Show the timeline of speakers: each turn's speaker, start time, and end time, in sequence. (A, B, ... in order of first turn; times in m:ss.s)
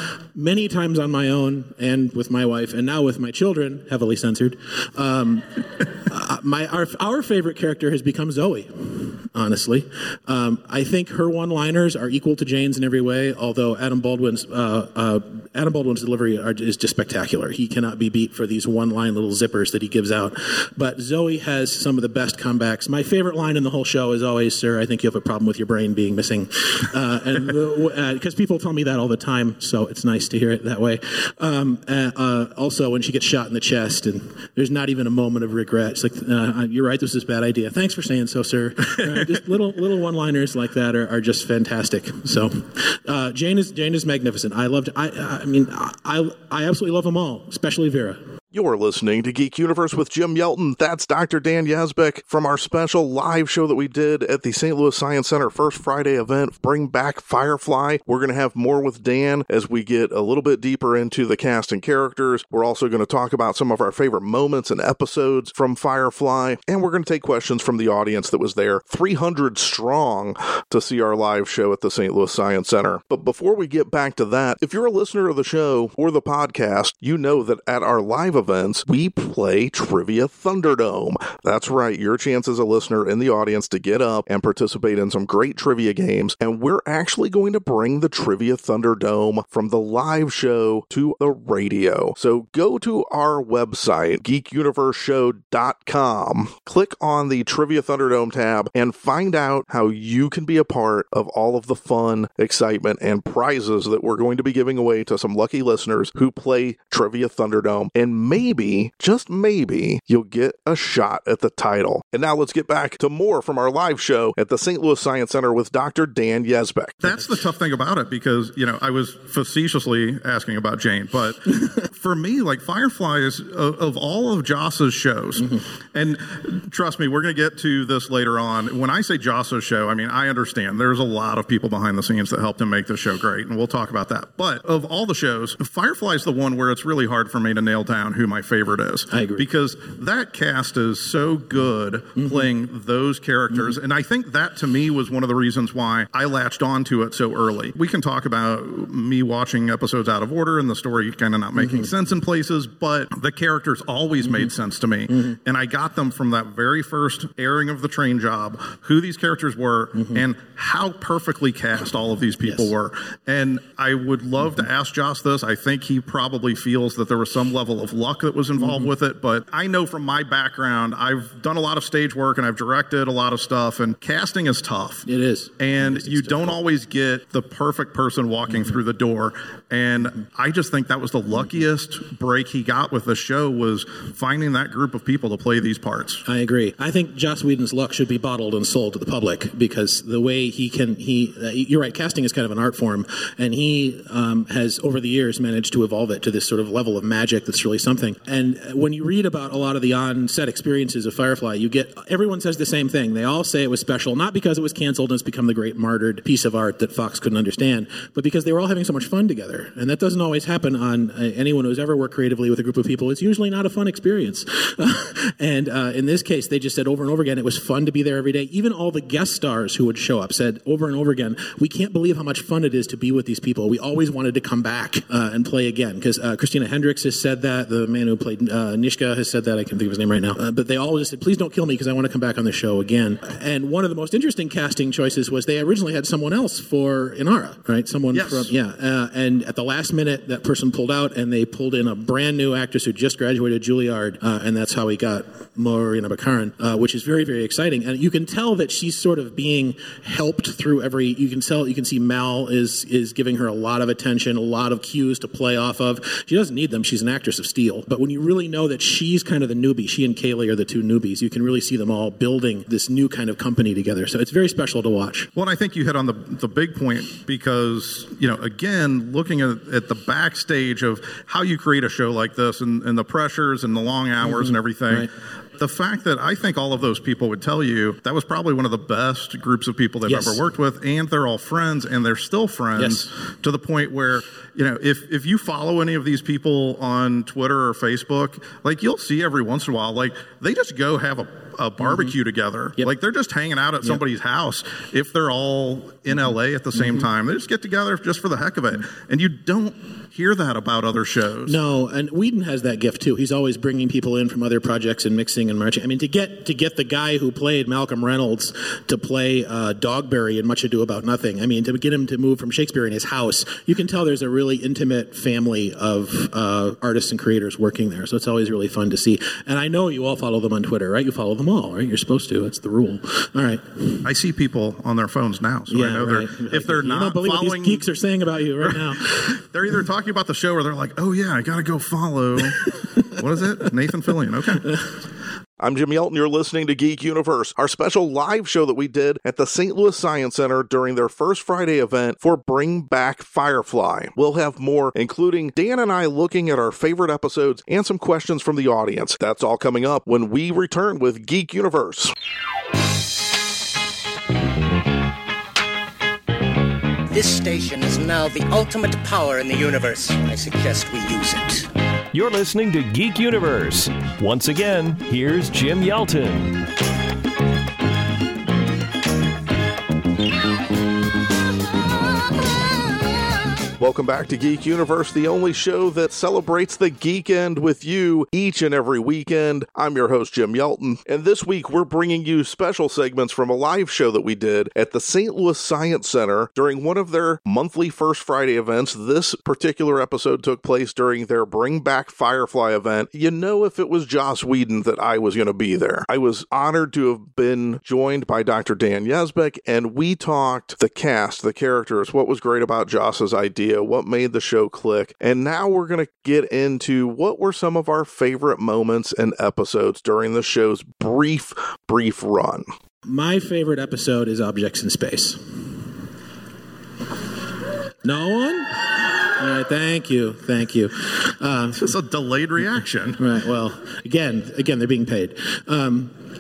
0:00.4-0:48.2 A
0:48.5-1:57.0 B
1:57.0-2:55.1 C
2:19.1-2:19.4 A
2:22.2-2:22.5 A
2:31.6-2:31.9 A
2:34.2-2:34.5 A
2:40.0-2:40.2 A
2:48.6-2:48.9 A
2:55.0-2:56.6 A
2:55.6-3:06.2 C
3:06.3-4:25.3 A
3:58.1-3:58.5 C
4:25.4-5:01.6 C
4:34.2-4:35.1 A
4:40.1-4:40.4 A
4:42.8-4:43.1 A
4:51.8-4:52.1 A
4:56.8-4:57.1 A
5:01.5-5:24.0 A
5:24.0-5:27.8 C
5:25.7-5:29.3 A
5:28.6-5:34.7 C
5:35.6-5:52.1 B
5:57.1-6:01.7 D
6:02.1-6:06.6 E
6:13.8-6:52.7 B
6:53.1-6:55.4 A
6:58.0-6:58.8 A
6:59.4-7:01.8 A
7:01.8-7:03.2 C
7:03.2-7:06.1 A